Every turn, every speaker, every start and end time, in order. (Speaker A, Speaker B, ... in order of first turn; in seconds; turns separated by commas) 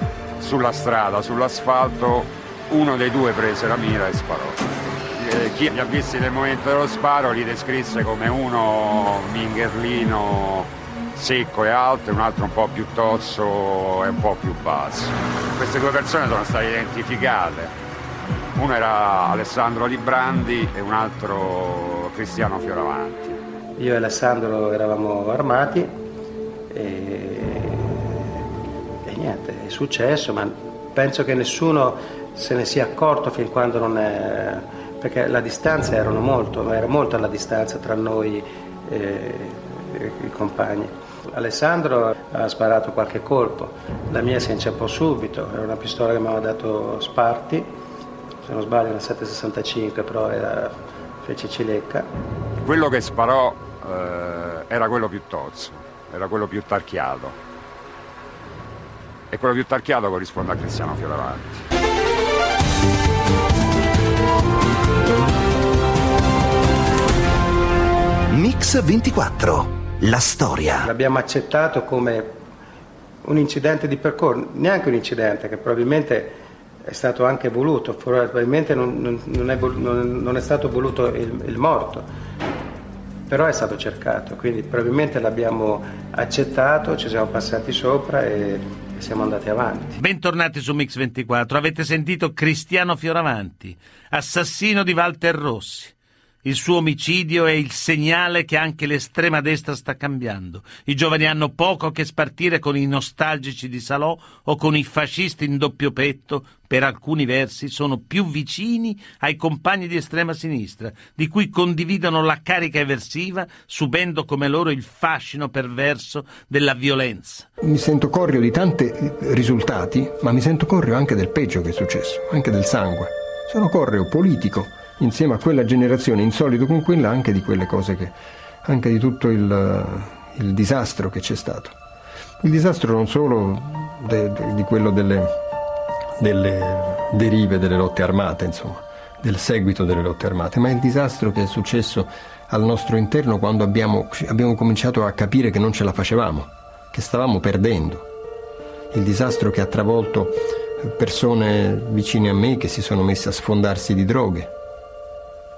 Speaker A: 0.4-17.7, Speaker A: 18.6-23.4, Speaker B: 23.8-25.9, Speaker B: 26.7-28.3, Speaker B: 29.0-47.7, Speaker B: 48.4-52.1, Speaker A: 52.6-57.4, Speaker A: 59.3-61.6, Speaker C: 68.3-70.9, Speaker B: 70.8-72.4, Speaker B: 73.2-82.1, Speaker B: 83.3-90.0, Speaker D: 90.0-117.5, Speaker E: 117.6-131.8, Speaker E: 132.4-135.4, Speaker E: 136.2-148.1, Speaker E: 148.9-154.5